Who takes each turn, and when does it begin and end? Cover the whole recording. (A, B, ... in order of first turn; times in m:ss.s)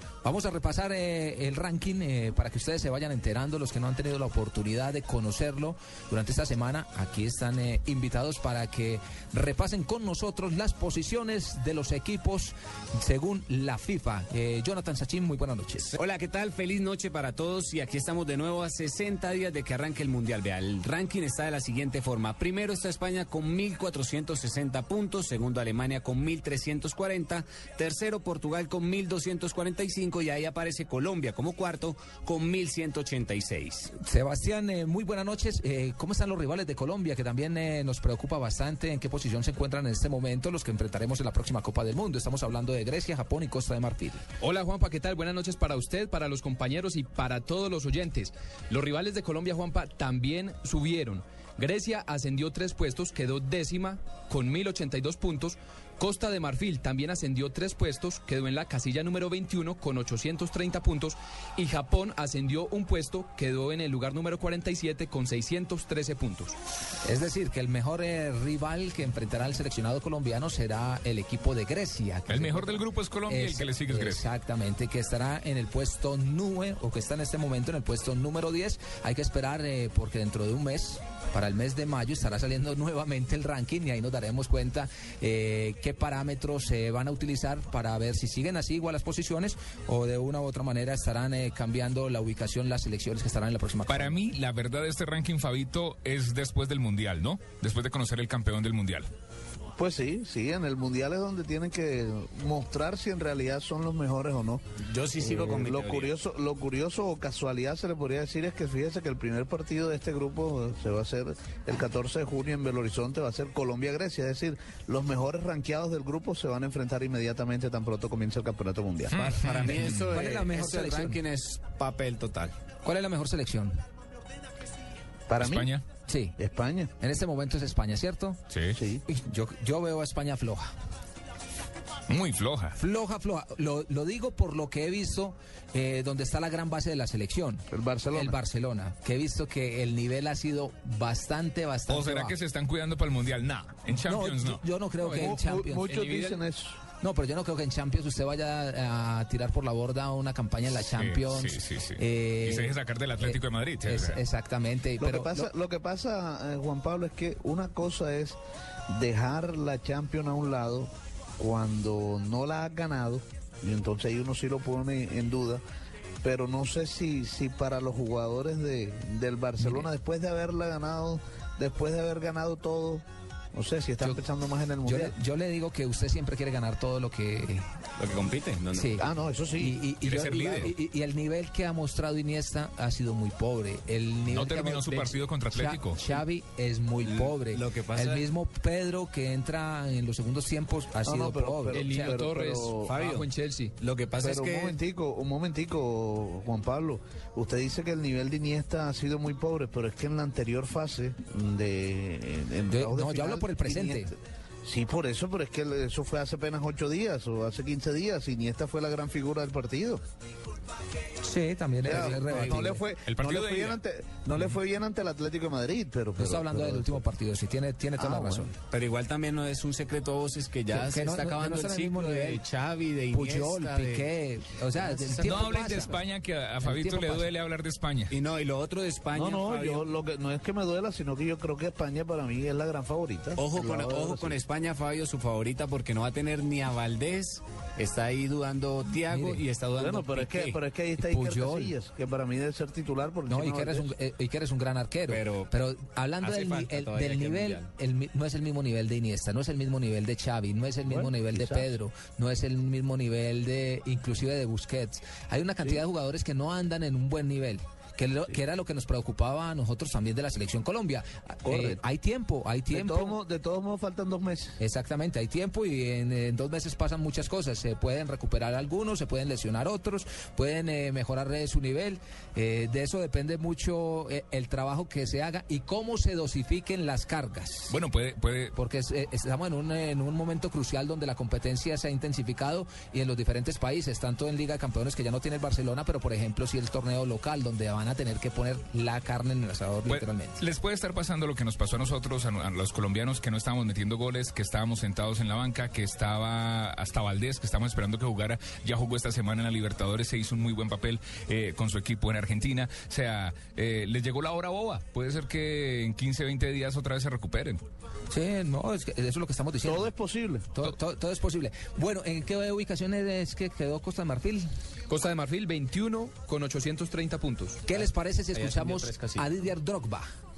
0:00.2-0:16.0 A
0:15.9-0:33.9 B
0:34.0-0:44.2 A
0:44.4-1:06.6 C
1:07.0-1:34.2 A
1:12.3-1:14.2 D
1:33.9-1:39.1 D
1:39.8-1:44.6 E
1:44.9-1:46.1 B
1:45.2-1:59.2 E
1:59.1-2:00.0 D
1:59.2-2:02.6 B
2:00.1-2:01.2 A
2:02.8-2:03.8 A
2:05.3-2:05.7 E
2:05.4-2:05.8 D
2:06.1-2:06.4 A
2:06.4-2:06.9 E
2:07.0-2:08.4 A
2:08.5-2:08.8 D
2:08.8-2:09.0 E
2:09.1-2:10.7 A
2:12.1-2:12.8 D
2:12.8-2:22.4 A
2:17.7-2:18.4 E
2:21.9-2:24.6 D
2:24.1-2:26.0 A
2:25.0-2:26.8 E
2:25.0-2:25.3 C
2:25.8-2:26.4 C
2:27.0-2:35.5 A
2:30.7-2:34.2 D
2:35.0-2:38.4 E
2:38.9-2:45.6 E
2:46.2-2:55.1 E
2:49.6-2:49.9 A
2:54.8-2:57.7 A
2:58.0-2:59.0 B
2:58.7-2:59.0 A
2:59.0-2:59.8 E
2:59.6-3:12.0 A
3:00.0-3:00.7 D
3:00.3-3:00.6 E
3:04.3-3:06.0 D
3:07.0-3:08.3 B
3:11.0-3:13.0 E
3:11.7-3:13.8 C
3:12.8-3:13.3 B
3:13.8-3:14.8 B
3:14.2-3:30.0 E
3:22.7-3:24.1 A
3:31.2-3:32.8 A
3:31.8-3:37.0 E
3:32.3-3:32.6 B
3:33.1-3:33.8 D
3:36.2-3:38.5 A
3:38.0-3:38.5 E
3:38.7-3:44.1 B
3:40.7-3:42.4 A
3:43.1-3:46.0 A
3:45.2-3:48.1 D
3:46.6-3:47.3 A
3:48.1-3:49.9 B
3:49.1-3:54.4 E
3:53.4-4:00.6 B
3:59.1-3:59.4 A
3:59.8-4:03.9 E
4:01.0-4:01.7 A
4:03.3-4:23.2 A
4:05.1-4:05.5 B
4:06.2-4:07.7 B
4:10.9-4:11.7 E
4:21.4-4:21.8 E
4:22.7-4:24.6 E
4:24.6-4:37.7 A
4:37.7-4:38.6 D
4:38.6-4:50.4 A
4:49.9-5:07.6 D
5:08.1-5:09.9 A
5:09.6-5:10.5 E
5:10.5-5:14.5 A
5:14.9-5:17.6 C
5:17.7-5:20.1 A
5:18.3-5:19.3 B